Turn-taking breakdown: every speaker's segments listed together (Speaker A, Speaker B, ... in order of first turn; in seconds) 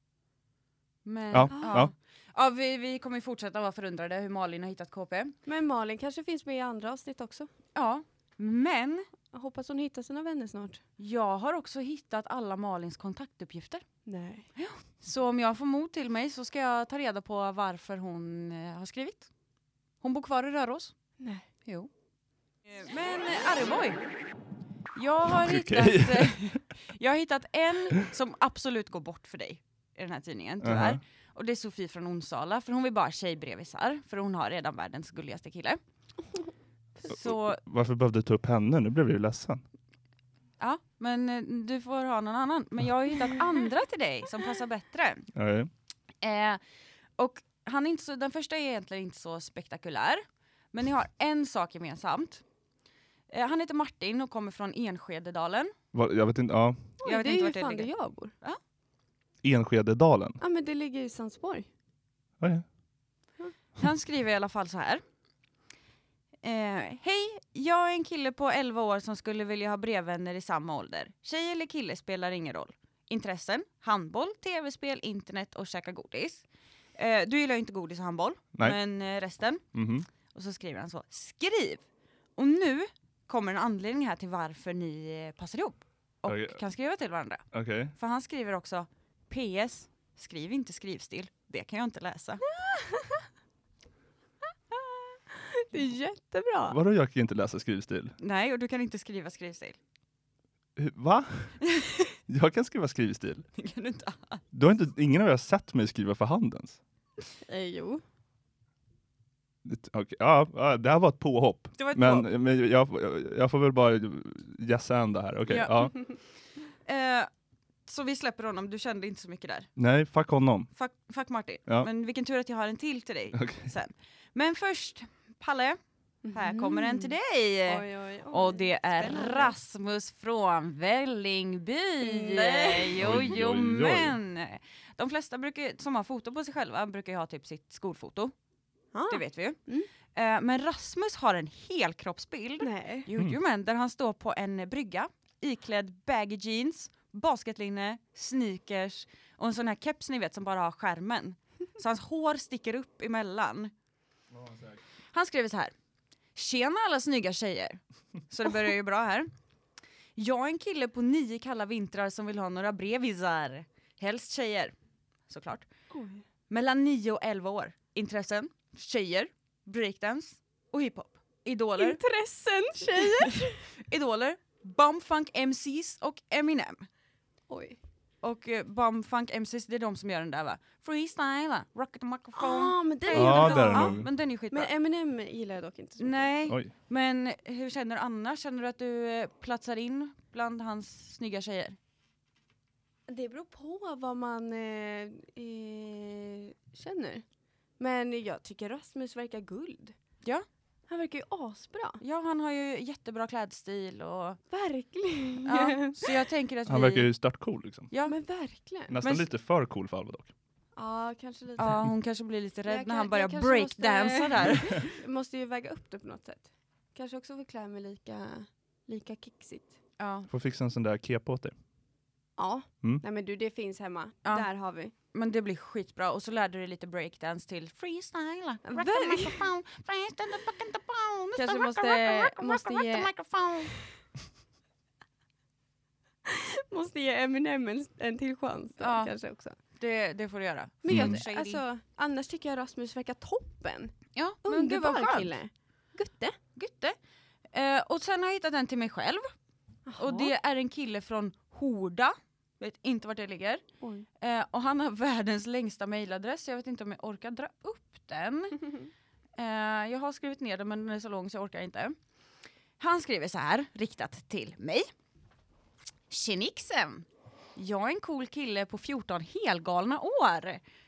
Speaker A: 1.1-5.3, 7.8-9.1, 11.0-13.8, 14.6-19.3, 20.0-20.9, 22.7-24.0, 24.9-35.8, 37.0-37.6, 40.6-45.3, 46.2-46.6, 47.2-52.4, 53.3-55.7, 57.0-57.9, 63.8-65.0, 66.4-76.5, 77.0-79.6, 80.3-81.8, 82.4-92.4, 98.2-99.8, 101.6-102.1, 103.6-104.4, 111.8-112.3, 115.5-116.1, 116.8-117.3, 117.9-119.7, 120.8-125.8, 126.3-138.3, 139.1-153.7, 155.1-155.7, 156.3-159.3, 160.2-164.8, 165.3-165.7, 166.5-172.0, 173.0-176.9, 178.2-184.7, 186.0-191.8, 202.0-204.4, 205.4-207.1, 211.6-214.9, 220.0-220.3, 225.1-233.8, 238.8-239.1, 239.8-241.6, 244.2-245.4, 246.6-247.0, 247.5-249.3, 250.0-253.6, 254.2-258.7, 259.4-262.0, 262.8-264.9, 266.1-270.6
Speaker B: 1.3-1.9, 25.3-26.6, 30.6-31.0, 37.5-39.6, 45.4-45.7, 55.9-56.9, 59.4-60.4, 62.4-62.6, 79.7-80.1, 86.3-86.6, 87.5-87.9, 96.7-98.2, 100.8-101.6, 102.3-103.5, 104.5-106.8, 109.7-116.0, 119.8-120.7, 123.3-123.7, 133.0-134.2, 154.3-154.8, 183.1-184.1, 206.7-207.9, 208.9-210.3, 214.5-214.8, 220.3-221.5, 240.9-241.2
Speaker C: 1.5-1.8, 5.5-7.5, 9.3-10.8, 14.1-14.5, 21.2-21.5, 57.0-58.3, 60.4-61.7, 92.5-93.2, 94.8-96.8, 107.5-108.0, 126.2-127.2, 127.7-129.5, 132.0-132.9, 138.9-139.9, 142.6-143.1, 165.9-166.2, 171.8-173.7, 177.5-177.8, 182.4-184.0, 184.5-186.3, 193.1-197.2, 197.8-200.0, 200.9-202.0, 204.5-206.2, 208.1-209.0, 210.8-211.8, 212.7-219.8, 222.4-224.9, 228.7-229.4, 231.4-233.1, 236.3-239.6, 240.8-246.4, 249.9-250.3, 253.8-254.1